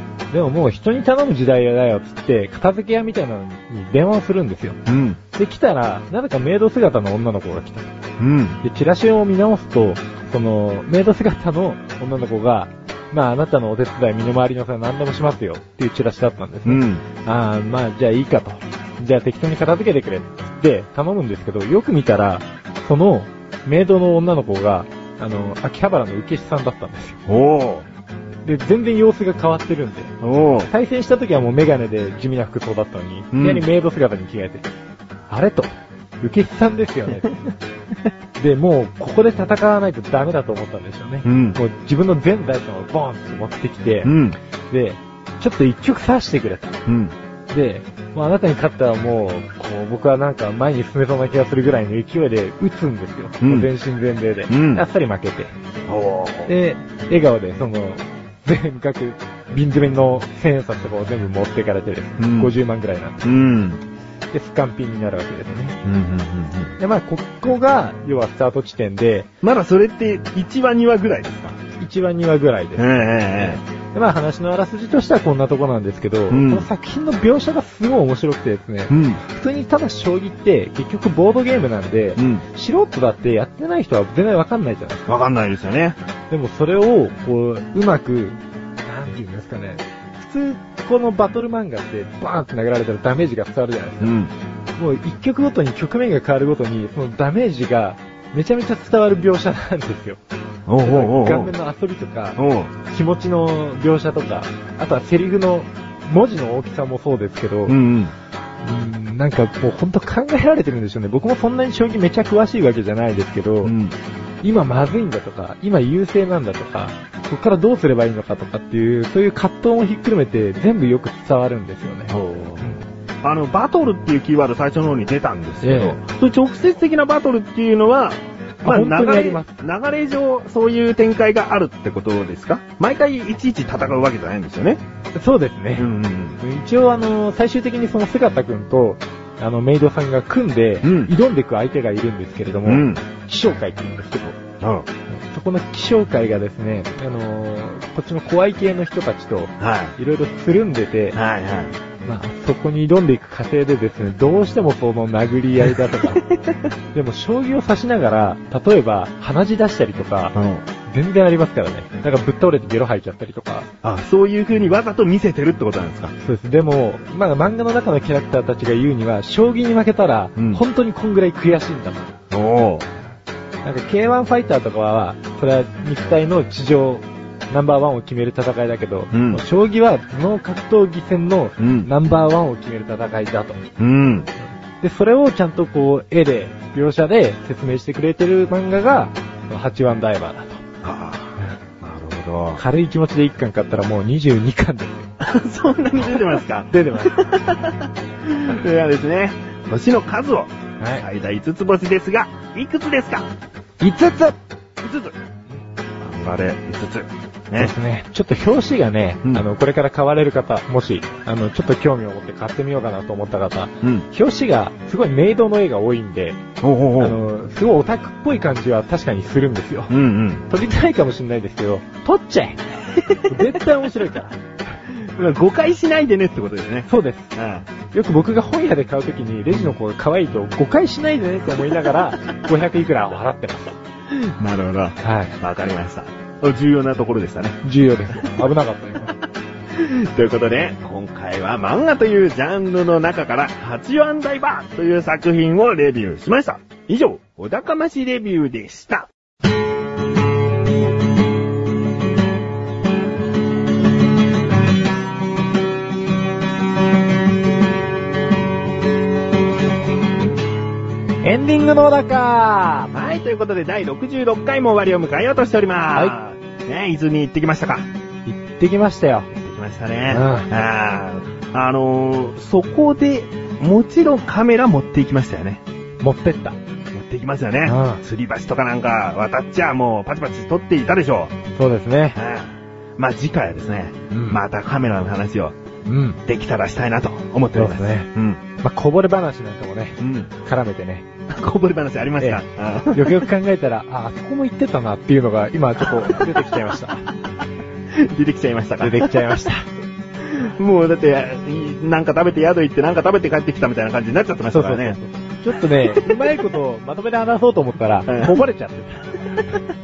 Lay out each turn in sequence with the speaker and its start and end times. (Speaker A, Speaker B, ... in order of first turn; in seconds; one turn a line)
Speaker A: 0.3-4.8
Speaker B: 4.9-5.2
Speaker A: 5.3-7.9
Speaker B: 8.2-8.6
Speaker A: 8.6-27.2
Speaker B: 16.6-17.0
Speaker B: 27.3-27.9
Speaker A: 28.4-30.1
Speaker B: 30.2-30.7
Speaker A: 30.7-34.7
Speaker B: 33.3-33.6
Speaker A: 35.3-37.3
Speaker A: 38.4-44.1
Speaker B: 41.2-41.6
Speaker B: 44.0-44.4
Speaker A: 44.7-46.8
Speaker B: 46.9-47.1
Speaker A: 47.5-55.5
Speaker B: 53.4-53.7
Speaker B: 54.5-54.8
Speaker B: 55.9-56.5
Speaker A: 56.5-63.3
Speaker B: 62.2-62.5
Speaker B: 63.2-63.8
Speaker A: 64.3-65.8
Speaker B: 65.8-66.8
Speaker A: 66.8-69.3
Speaker B: 69.4-71.6
Speaker A: 71.8-85.1
Speaker B: 72.8-73.6
Speaker B: 76.3-76.7
Speaker B: 78.9-79.2
Speaker B: 82.2-82.4
Speaker B: 85.0-86.0
Speaker A: 86.3-94.1
Speaker B: 94.0-94.3
Speaker A: 94.8-100.2
Speaker B: 100.7-101.5
Speaker A: 100.8-107.8
Speaker B: 102.4-102.7
Speaker B: 107.7-108.1
Speaker A: 108.6-113.7
Speaker B: 113.6-113.9
Speaker A: 114.4-122.8
Speaker B: 122.1-122.7
Speaker B: 123.2-134.8
Speaker A: 125.6-126.0
Speaker A: 128.6-129.5
Speaker A: 135.1-144.4
Speaker B: 135.8-136.4
Speaker B: 140.8-141.1
Speaker B: 142.6-143.0
Speaker B: 144.6-144.9
Speaker A: 145.1-151.2
Speaker B: 149.6-149.9
Speaker B: 151.1-151.8
Speaker A: 152.0-156.3
Speaker A: 156.9-160.3
Speaker B: 160.3-160.6
Speaker A: 160.9-163.7
Speaker B: 163.8-166.1
Speaker A: 166.2-172.1
Speaker B: 170.3-170.6
Speaker B: 172.3-172.9
Speaker A: 173.6-183.6
Speaker B: 179.1-179.4
Speaker B: 181.6-181.9
Speaker B: 183.8-184.3
Speaker A: 184.8-190.6
Speaker B: 190.8-192.6
Speaker A: 192.6-195.1
Speaker B: 195.2-203.3
Speaker A: 196.7-197.4
Speaker A: 203.8-204.4
Speaker B: 204.8-205.2
Speaker B: 206.0-207.7
Speaker A: 207.6-216.4
Speaker B: 216.6-217.2
Speaker A: 217.0-219.9
Speaker B: 219.9-220.4
Speaker A: 220.5-222.6
Speaker B: 222.9-223.2
Speaker A: 223.3-224.4
Speaker B: 224.9-227.7
Speaker A: 226.9-227.3
Speaker A: 227.9-233.8
Speaker B: 234.1-237.6
Speaker A: 235.0-235.3
Speaker A: 237.6-239.2
Speaker B: 238.2-238.4
Speaker B: 239.7-249.1
Speaker A: 261.2-262.9
Speaker B: 262.9-267.9
Speaker A: 268.2-269.3
Speaker B: 269.3-275.6
Speaker A: 270.1-270.5
Speaker A: 276.0-276.6
Speaker B: 276.9-281.3
Speaker A: 277.6-278.0
Speaker A: 281.6-282.2
Speaker B: 282.1-285.6
Speaker A: 284.1-284.4
Speaker A: 285.9-286.2
Speaker B: 286.2-288.4
Speaker A: 287.5-291.1
Speaker B: 290.0-290.3
Speaker B: 291.3-293.3
Speaker A: 292.2-297.0
Speaker B: 295.9-296.3
Speaker B: 297.9-299.3
Speaker A: 298.8-299.7
Speaker B: 300.2-305.0
Speaker A: 304.5-309.6
Speaker B: 305.7-306.2
Speaker B: 308.1-308.4